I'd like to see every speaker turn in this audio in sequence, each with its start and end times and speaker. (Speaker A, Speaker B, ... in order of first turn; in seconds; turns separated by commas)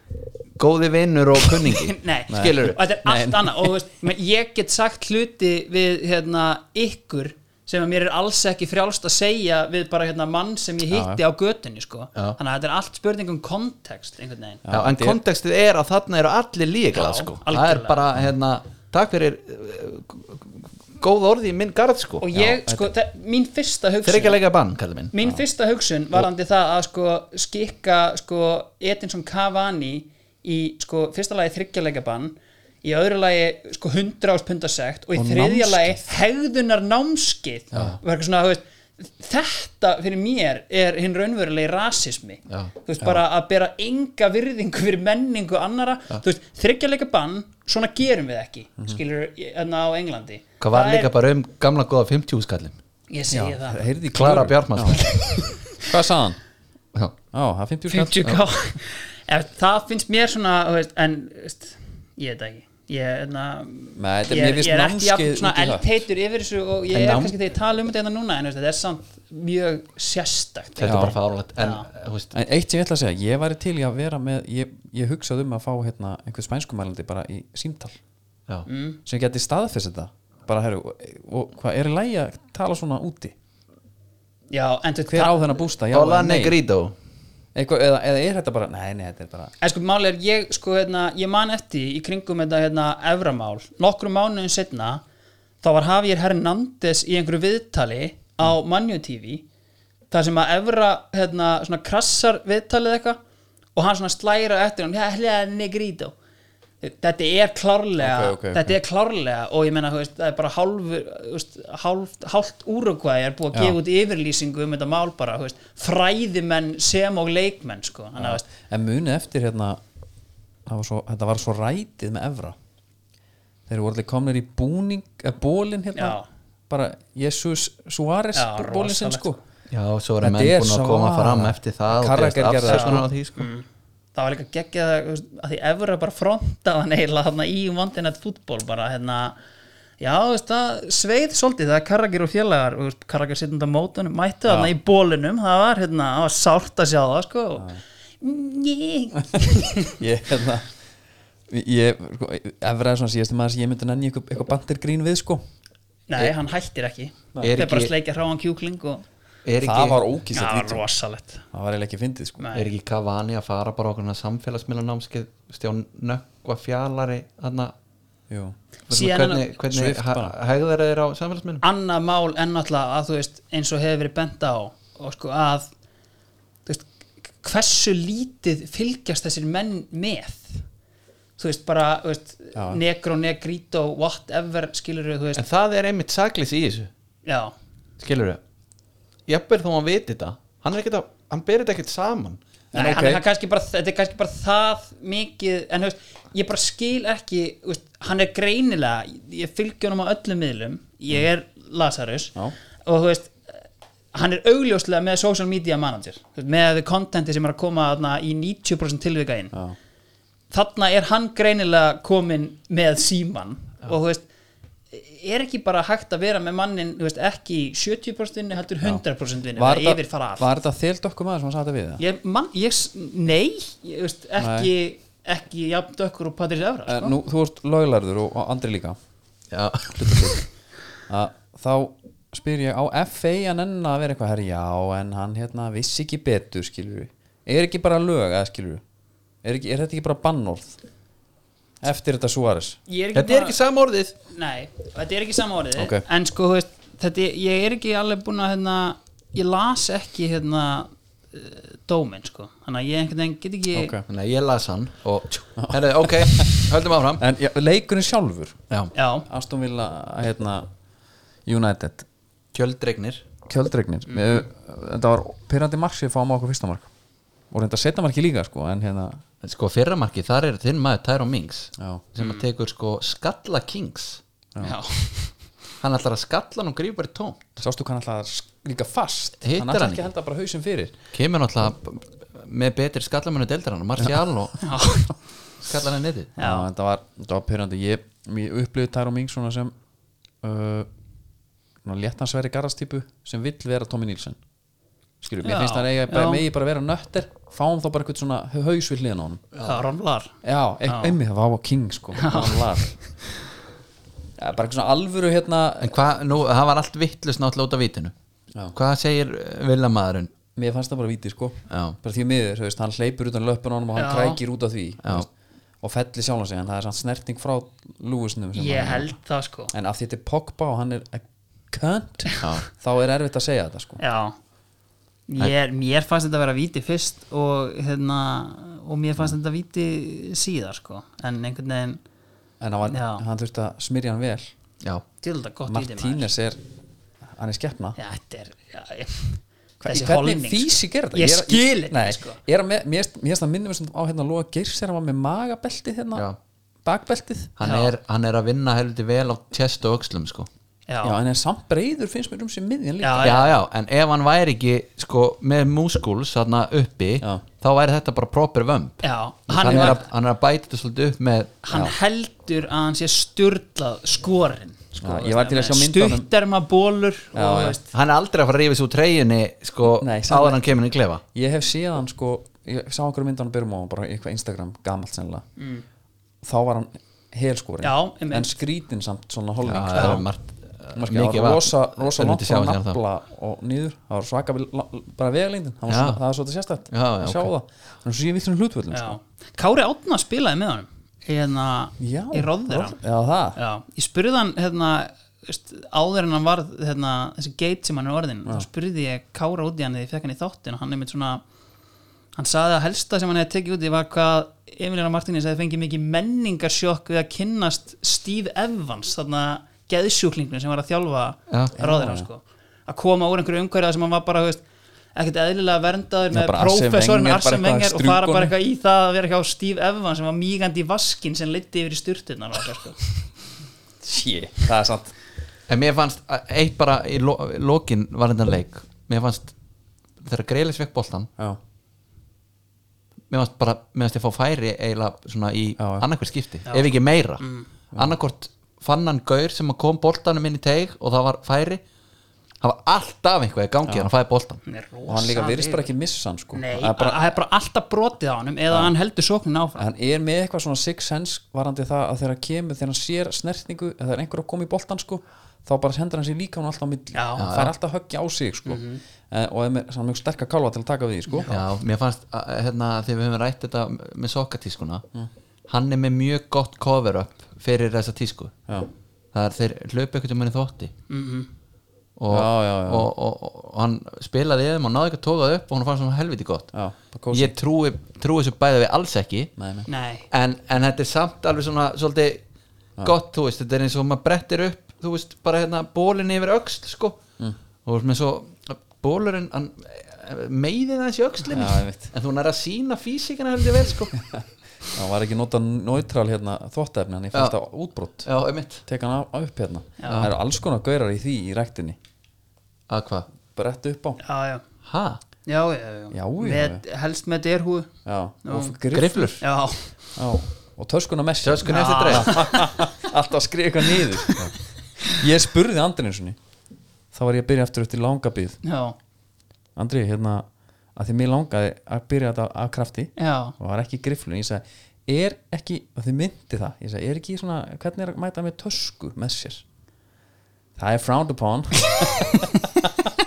Speaker A: 0.6-2.8, Speaker B: 1.4-14.6, Speaker C: 2.3-3.7, Speaker C: 10.9-11.2, Speaker C: 14.6-15.2, Speaker A: 14.7-22.3, Speaker B: 16.9-18.0, Speaker B: 22.2-24.4, Speaker C: 22.3-22.9, Speaker A: 24.0-25.1, Speaker B: 25.1-51.1, Speaker C: 35.1-36.0, Speaker A: 50.6-52.8, Speaker B: 53.1-53.9, Speaker C: 53.3-55.0, Speaker A: 54.1-55.1, Speaker B: 54.9-55.8, Speaker C: 55.8-56.4, Speaker C: 57.3-58.4, Speaker B: 57.9-71.9, Speaker C: 64.0-66.0, Speaker A: 66.9-67.4, Speaker A: 70.8-72.3, Speaker C: 70.9-71.1, Speaker C: 72.3-78.0, Speaker B: 78.7-79.0, Speaker C: 79.0-83.3, Speaker B: 84.5-85.5, Speaker C: 85.1-86.6, Speaker A: 85.9-86.9, Speaker C: 87.5-89.5, Speaker B: 89.6-95.0, Speaker B: 95.6-99.4, Speaker B: 100.1-103.2, Speaker B: 103.8-106.1, Speaker B: 106.8-118.4, Speaker C: 108.0-108.8, Speaker C: 118.2-119.8, Speaker C: 120.7-122.5, Speaker C: 123.7-129.4, Speaker B: 126.0-126.2, Speaker B: 128.3-129.3, Speaker A: 129.7-133.5, Speaker C: 130.2-133.0, Speaker B: 132.7-139.4, Speaker B: 140.0-147.7, Speaker C: 147.6-147.8, Speaker B: 148.2-149.9, Speaker C: 149.4-150.7, Speaker C: 151.5-155.4, Speaker B: 156.1-159.0, Speaker A: 157.4-157.9, Speaker A: 159.4-160.0, Speaker C: 159.6-160.8, Speaker B: 160.3-161.4, Speaker C: 161.5-162.5, Speaker B: 162.4-162.7, Speaker A: 162.5-167.7, Speaker C: 168.3-168.5, Speaker B: 168.9-169.5, Speaker A: 168.9-171.6, Speaker C: 169.7-170.3, Speaker B: 171.6-175.7, Speaker B: 177.4-180.6, Speaker B: 181.4-185.4, Speaker C: 182.5-182.8, Speaker A: 185.3-186.9, Speaker B: 187.2-187.5, Speaker A: 188.0-188.4, Speaker A: 189.3-192.4, Speaker C: 192.7-193.2, Speaker B: 192.7-203.6, Speaker B: 204.1-209.5, Speaker B: 210.5-214.2, Speaker B: 214.9-220.5, Speaker C: 219.6-222.0, Speaker B: 222.0-227.1, Speaker C: 224.4-224.7, Speaker C: 226.9-229.0, Speaker A: 229.5-230.4, Speaker C: 231.1-238.8, Speaker C: 239.4-240.8, Speaker C: 241.8-242.8, Speaker B: 242.9-243.6, Speaker A: 243.1-244.1, Speaker B: 244.3-253.9, Speaker C: 245.8-246.0, Speaker C: 253.7-254.0, Speaker A: 254.1-257.2, Speaker C: 255.6-258.6, Speaker B: 258.9-259.3, Speaker C: 259.3-260.7, Speaker C: 261.4-262.1, Speaker A: 262.5-263.2, Speaker C: 263.5-266.9, Speaker B: 264.1-264.4, Speaker C: 267.5-269.2, Speaker A: 269.4-274.2, Speaker C: 271.8-272.0, Speaker B: 272.2-272.4, Speaker B: 274.6-275.3, Speaker A: 275.8-277.6, Speaker C: 277.6-280.9, Speaker A: 279.4-280.1, Speaker A: 281.1-284.6, Speaker B: 284.6-285.1, Speaker A: 285.6-286.3, Speaker B: 286.4-286.6, Speaker C: 286.4-289.7, Speaker C: 290.4-290.9, Speaker C: 291.8-294.4, Speaker C: 295.2-299.4, Speaker B: 295.4-296.4, Speaker A: 299.5-299.8, Speaker B: 299.6-300.3, Speaker C: 300.4-302.9, Speaker B: 300.9-301.2, Speaker B: 302.1-302.7, Speaker C: 304.4-305.9, Speaker A: 305.8-308.1, Speaker A: 308.7-310.3, Speaker C: 310.6-315.3, Speaker A: 311.7-312.0, Speaker B: 313.9-314.4, Speaker A: 315.0-315.3, Speaker C: 315.8-319.1, Speaker B: 318.5-319.7, Speaker C: 319.7-324.0, Speaker B: 324.0-324.3, Speaker B: 325.3-332.0, Speaker C: 332.6-334.5, Speaker B: 332.9-333.2, Speaker B: 335.2-336.3, Speaker C: 335.7-336.6, Speaker C: 337.4-338.0, Speaker B: 338.0-342.4, Speaker C: 339.8-346.3, Speaker C: 346.8-347.5, Speaker A: 347.6-350.5, Speaker B: 347.6-347.9, Speaker B: 350.9-351.2, Speaker C: 351.0-353.4, Speaker B: 353.0-353.5, Speaker A: 353.2-361.6, Speaker B: 359.0-360.0, Speaker C: 359.6-360.0, Speaker B: 361.6-367.9, Speaker C: 365.0-366.3, Speaker C: 367.3-367.8, Speaker A: 367.9-371.2, Speaker C: 370.0-370.6, Speaker C: 371.3-375.4, Speaker B: 375.6-375.8, Speaker C: 376.4-380.3, Speaker B: 377.8-378.5, Speaker A: 379.6-383.0, Speaker B: 379.9-380.2, Speaker C: 380.9-389.2, Speaker A: 385.9-386.2, Speaker A: 386.9-387.5, Speaker B: 388.9-393.0, Speaker C: 392.0-393.6, Speaker B: 393.6-401.4, Speaker B: 402.4-414.6, Speaker C: 411.8-412.3, Speaker B: 415.1-423.3, Speaker C: 416.3-418.5, Speaker C: 424.0-425.1, Speaker A: 425.7-429.5, Speaker A: 430.2-431.3, Speaker A: 433.3-441.8, Speaker C: 435.8-436.0, Speaker B: 436.7-437.7, Speaker A: 442.6-444.6, Speaker B: 444.6-445.9, Speaker C: 445.1-447.2, Speaker B: 446.5-449.8, Speaker C: 449.8-461.5, Speaker B: 457.1-457.4, Speaker A: 457.4-457.7, Speaker B: 458.6-459.0, Speaker B: 461.3-461.6, Speaker A: 461.5-465.0, Speaker A: 465.7-468.5, Speaker A: 469.3-470.9, Speaker B: 471.1-471.5, Speaker A: 472.2-476.7, Speaker C: 472.3-473.1, Speaker C: 476.7-477.5, Speaker A: 477.3-479.5, Speaker C: 479.6-479.9, Speaker B: 479.9-480.3, Speaker A: 480.3-482.4, Speaker A: 483.0-487.2, Speaker A: 487.8-494.1, Speaker C: 491.5-492.1, Speaker C: 494.2-498.3, Speaker A: 498.2-498.8, Speaker C: 498.8-502.0, Speaker B: 500.0-500.3, Speaker A: 500.0-500.3, Speaker A: 502.9-503.3, Speaker C: 503.5-504.2, Speaker B: 504.2-504.6, Speaker A: 504.8-505.2, Speaker B: 505.4-507.9, Speaker C: 506.1-506.8, Speaker C: 508.0-509.3, Speaker B: 508.4-508.8, Speaker A: 508.9-509.4, Speaker B: 509.4-509.9, Speaker C: 510.1-514.5, Speaker A: 511.4-512.4, Speaker B: 511.6-512.8, Speaker B: 514.0-514.5, Speaker C: 515.1-516.4, Speaker C: 517.1-518.6, Speaker B: 518.6-519.0, Speaker C: 519.8-529.6, Speaker B: 523.2-523.5, Speaker C: 530.8-533.1